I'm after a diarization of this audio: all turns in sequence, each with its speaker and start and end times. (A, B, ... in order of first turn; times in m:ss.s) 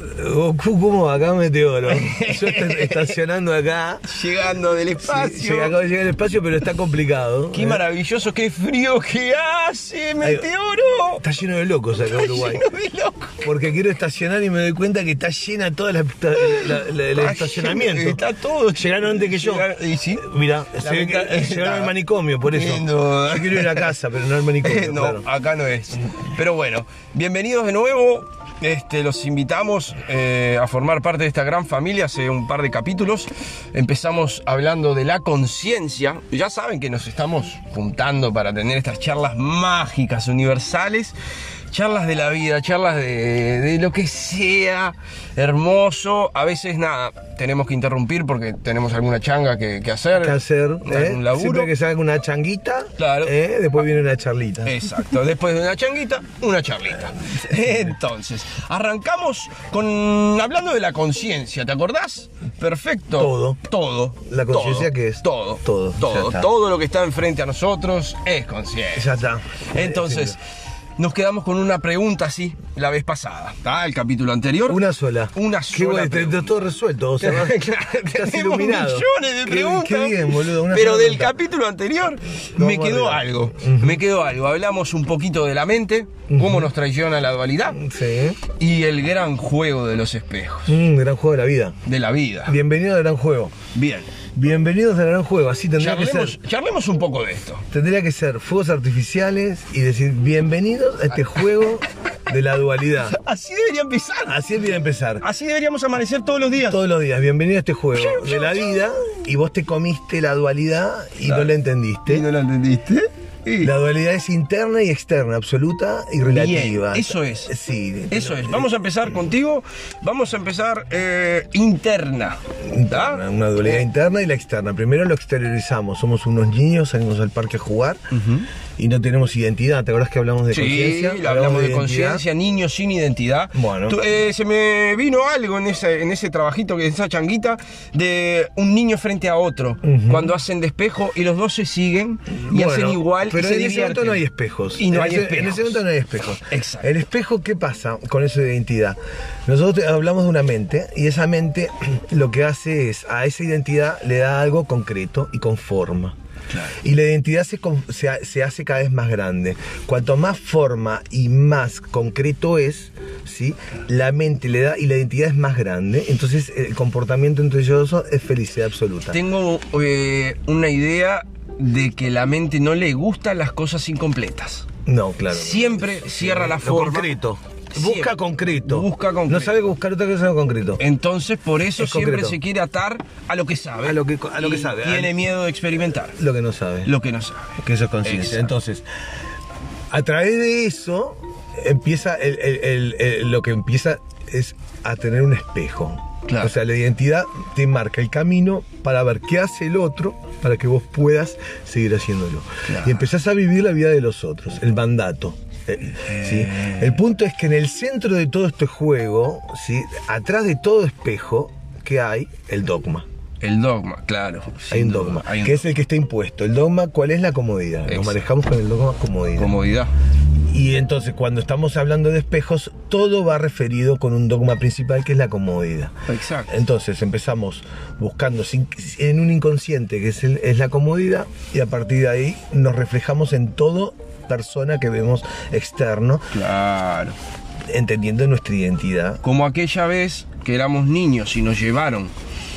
0:00.1-0:04.0 A
0:01.9-0:03.2 B
0:04.0-0:05.8 B
0:05.0-0:07.8 A
0:07.5-0:11.2 B
0:10.2-0:10.5 A
0:11.2-0:12.6 A
0:12.1-0:13.5 B
0:13.4-0:18.2 A
0:16.4-0:20.3 B
0:18.7-0:25.2 A
0:20.8-0:23.9 B
0:24.6-0:41.2 B
0:41.7-0:51.7 B
0:50.2-0:54.8 A
0:53.0-0:53.3 B
0:54.6-1:09.1 B
0:57.2-0:57.9 A
1:03.1-1:03.6 A
1:04.2-1:06.5 A
1:08.9-1:10.4 A
1:09.7-1:10.4 B
1:11.0-1:16.6 B
1:14.6-1:21.4 A
1:17.2-1:27.8 B
1:22.5-1:24.0 A
1:26.3-1:26.7 A
1:27.7-1:28.4 A
1:28.5-1:30.8 B
1:30.7-1:31.8 A
1:31.8-1:32.5 B
1:32.4-1:33.5 A
1:33.7-1:34.1 B
1:34.3-1:36.4 A
1:35.8-1:37.6 B
1:37.7-1:43.2 A
1:43.0-1:44.4 B
1:44.3-1:45.2 A
1:45.2-1:46.8 B
1:46.6-1:52.3 A
1:47.9-1:48.9 B
1:51.2-1:51.5 B
1:52.1-1:53.8 B
1:53.6-1:59.2 A
1:56.2-1:57.5 B
1:58.1-2:03.9 B
2:02.6-2:08.0 A
2:08.1-2:08.5 B
2:08.8-2:12.2 A
2:10.5-2:25.8 B
2:13.5-2:14.0 A
2:19.8-2:20.3 A
2:22.3-2:36.1 A
2:26.5-2:26.9 B
2:36.8-2:49.2 A
2:49.1-2:54.7 B
2:54.8-3:00.8 A
2:55.3-2:57.1 B
2:57.7-2:59.7 B
3:00.8-3:06.2 B
3:01.7-3:02.4 A
3:03.8-3:05.2 A
3:06.1-3:06.9 A
3:06.8-3:08.5 B
3:07.6-3:08.9 A
3:09.9-3:33.0 A
3:16.2-3:16.5 B
3:22.6-3:23.1 B
3:25.9-3:27.0 B
3:33.4-3:35.7 B
3:34.7-3:39.5 A
3:37.9-3:38.2 B
3:39.4-3:39.9 B
3:40.5-3:45.9 A
3:46.1-3:46.6 B
3:46.5-3:56.3 A
3:56.3-3:57.2 B
3:57.7-3:59.2 A
3:59.2-4:02.1 B